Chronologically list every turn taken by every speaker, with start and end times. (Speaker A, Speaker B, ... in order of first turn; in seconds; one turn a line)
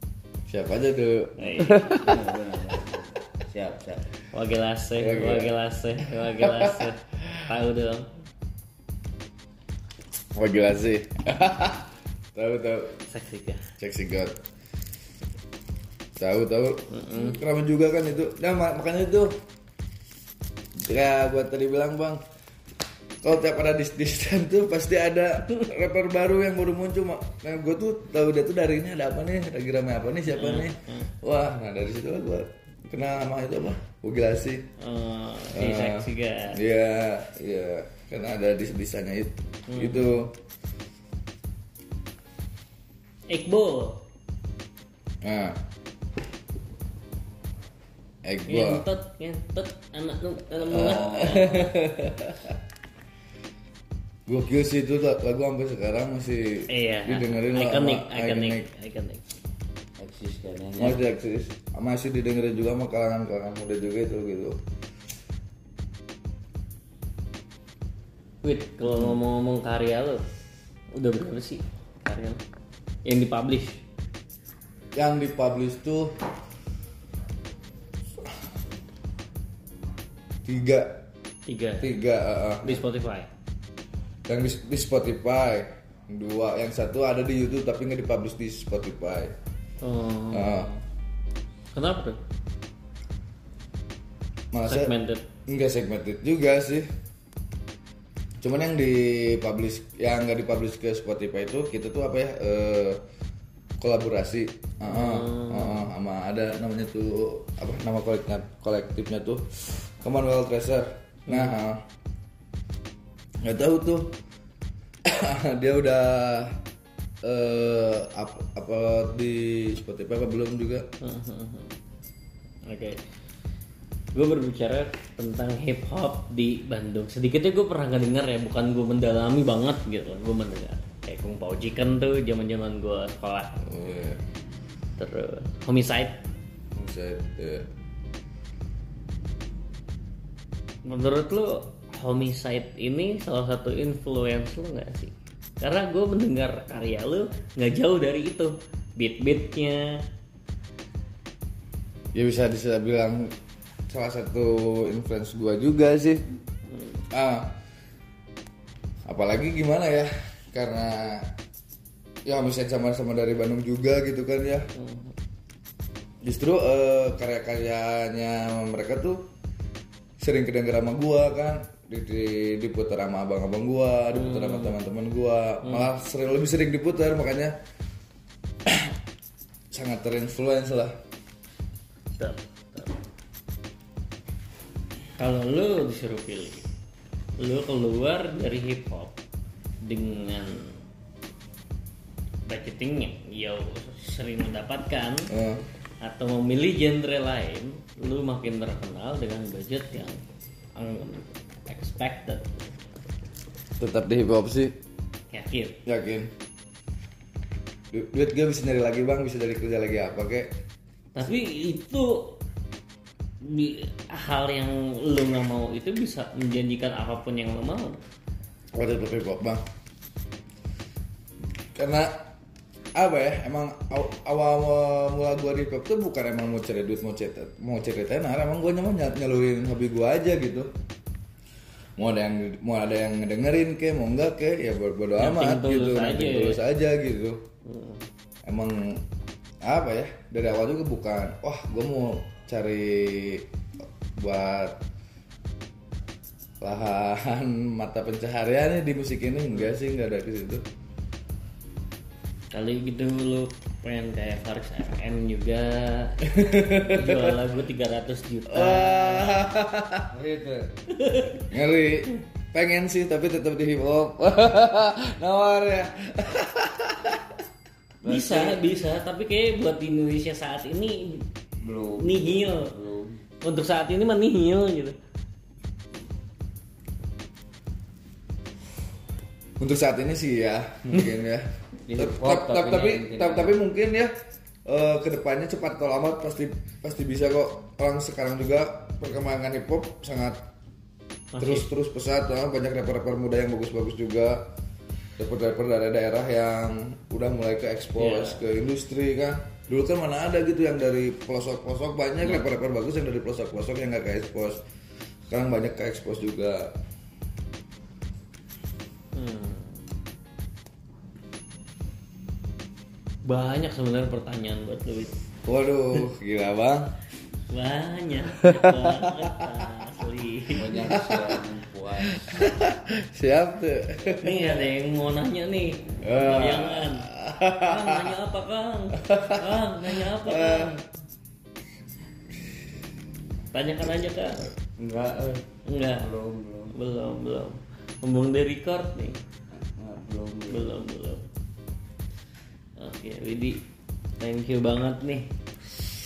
Speaker A: 0.5-2.2
Speaker B: 1.4-2.0
Speaker C: 1.9-4.1
Speaker B: 4.3-8.1
Speaker A: 5.0-5.5
Speaker A: 6.3-6.9
Speaker A: 10.3-13.0
Speaker B: 13.1-13.7
Speaker A: 13.8-14.4
Speaker A: 16.2-19.3
Speaker B: 16.9-17.4
Speaker A: 20.8-22.2
Speaker A: 23.2-34.7
Speaker B: 30.3-31.1
Speaker B: 34.8-36.6
Speaker A: 35.5-40.4
Speaker B: 39.7-40.2
Speaker B: 43.3-44.0
Speaker A: 45.2-45.6
Speaker A: 48.2-48.9
Speaker B: 48.5-51.7
Speaker A: 50.7-52.6
Speaker A: 54.3-58.7
Speaker B: 56.7-59.2
Speaker C: 60.0-61.0
Speaker A: 60.8-64.6
Speaker B: 68.4-70.2
Speaker B: 70.9-72.4
Speaker B: 73.0-73.8
Speaker A: 75.0-76.2
Speaker A: 80.5-81.0
Speaker B: 81.5-81.9
Speaker A: 81.8-82.8
Speaker B: 82.6-83.3
Speaker A: 84.3-89.3
Speaker B: 89.8-90.7
Speaker A: 90.3-90.7
Speaker B: 91.7-92.2
Speaker A: 94.5-94.9
Speaker B: 94.7-95.2
Speaker A: 95.5-96.9
Speaker A: 98.4-103.0
Speaker A: 103.8-111.8
Speaker B: 104.9-105.9
Speaker B: 111.3-111.5
Speaker A: 113.4-114.2
Speaker A: 115.0-116.6
Speaker A: 117.2-120.9
Speaker B: 121.0-121.7
Speaker B: 122.7-123.0
Speaker B: 124.1-133.6
Speaker A: 133.6-134.2
Speaker B: 135.0-136.2
Speaker A: 136.8-137.7
Speaker B: 140.8-150.0
Speaker A: 152.1-153.3
Speaker A: 153.9-156.2
Speaker A: 157.1-157.6
Speaker A: 159.1-161.3
Speaker A: 162.3-164.7
Speaker B: 164.8-165.1
Speaker A: 166.2-169.3
Speaker A: 170.2-177.6
Speaker B: 174.1-174.8
Speaker A: 178.7-179.0
Speaker A: 179.7-181.0
Speaker B: 182.2-183.0
Speaker B: 185.2-186.7
Speaker B: 187.4-189.2
Speaker B: 189.8-190.8
Speaker B: 192.5-195.3
Speaker A: 195.3-195.6
Speaker B: 196.0-200.2
Speaker B: 200.8-202.5
Speaker A: 203.8-204.8
Speaker B: 205.3-205.8
Speaker A: 205.8-206.3
Speaker A: 207.9-210.5
Speaker B: 211.2-212.4
Speaker B: 213.4-218.0
Speaker A: 218.8-219.6
Speaker A: 221.7-222.3
Speaker A: 222.9-230.7
Speaker A: 232.0-237.4
Speaker B: 235.2-236.6
Speaker B: 237.7-238.0
Speaker A: 238.5-239.1
Speaker A: 239.6-243.5
Speaker A: 244.2-244.8
Speaker A: 246.6-250.6
Speaker B: 252.5-256.3
Speaker A: 256.2-257.4
Speaker B: 256.8-259.5
Speaker A: 258.5-260.1
Speaker C: 260.1-260.7
Speaker B: 260.9-261.5
Speaker A: 261.4-267.4
Speaker C: 268.0-268.6
Speaker B: 268.0-271.3
Speaker C: 271.6-273.2
Speaker B: 272.0-272.7
Speaker B: 273.4-275.0
Speaker A: 279.6-284.1
Speaker C: 281.9-283.6
Speaker A: 284.7-290.5
Speaker B: 291.3-291.7
Speaker A: 291.4-294.5
Speaker A: 295.2-304.6
Speaker B: 298.0-298.4
Speaker A: 305.3-306.8
Speaker B: 309.1-309.8
Speaker B: 313.2-315.1
Speaker A: 315.4-316.9
Speaker B: 317.5-320.9
Speaker A: 318.4-319.7
Speaker C: 320.5-322.4
Speaker A: 320.8-321.4
Speaker A: 322.0-324.6
Speaker B: 324.1-330.8
Speaker A: 326.0-328.2
Speaker A: 329.0-330.9
Speaker B: 333.5-334.5
Speaker C: 334.8-336.7
Speaker B: 335.7-336.1
Speaker B: 336.7-339.2
Speaker C: 339.8-340.8
Speaker B: 340.5-341.3
Speaker B: 342.8-343.6
Speaker B: 344.2-345.3